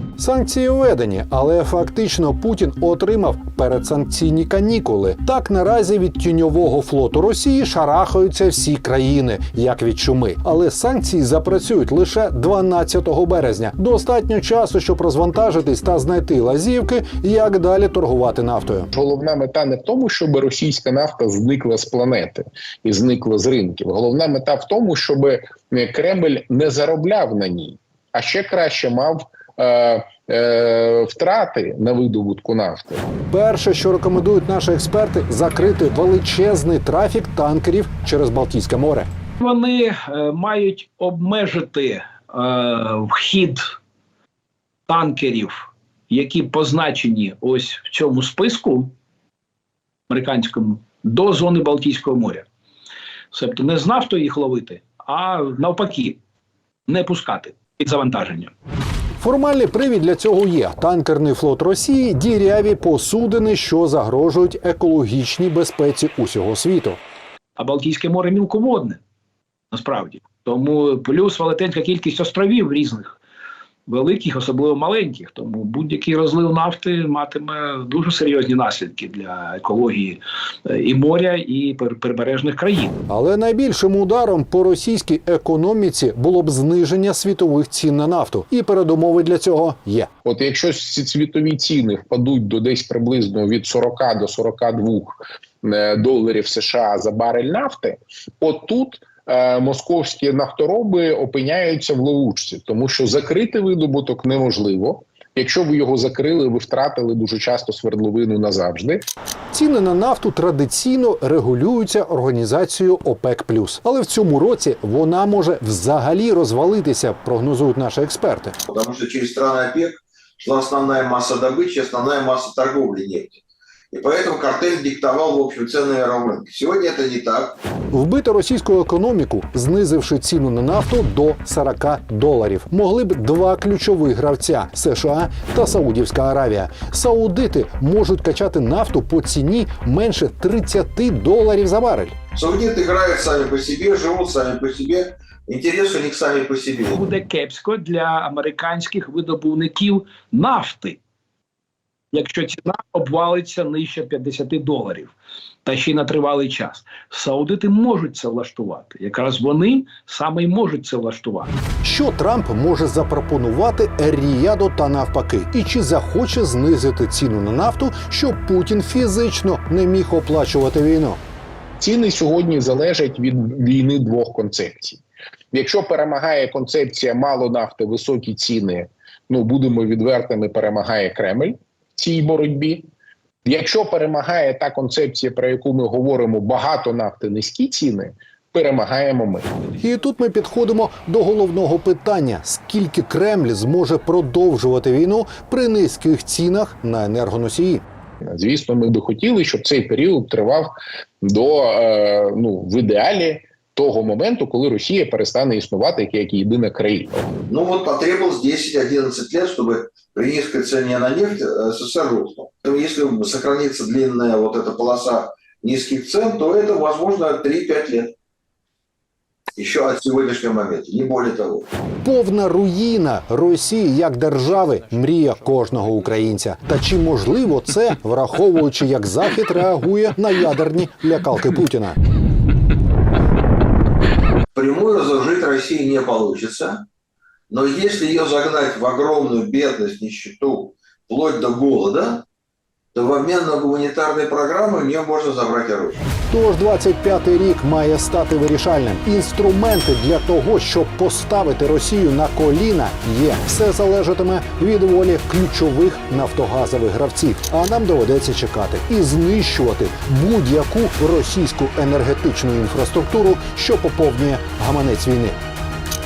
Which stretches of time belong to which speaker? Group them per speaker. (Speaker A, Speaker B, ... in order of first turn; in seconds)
Speaker A: 0.2-18.9, 33.3-39.1, 59.2-67.0, 83.1-90.1, 109.5-118.6, 127.9-142.2, 161.8-171.2, 189.8-197.8, 222.0-232.0, 246.3-265.4
Speaker B: 18.9-33.0, 90.2-109.0, 171.8-175.0, 175.5-182.9, 183.4-189.5, 198.2-207.3
Speaker C: 39.4-43.8, 44.9-48.9, 50.1-52.5, 53.3-56.2, 56.9-58.5, 67.6-69.0, 69.7-73.2, 73.9-83.0, 146.9-151.0, 152.1-155.1, 155.7-161.5
Speaker D: 118.7-123.4, 123.9-127.6, 142.3-147.0, 207.5-218.1, 219.6-221.7, 234.6-236.8, 237.5-242.2, 242.9-246.0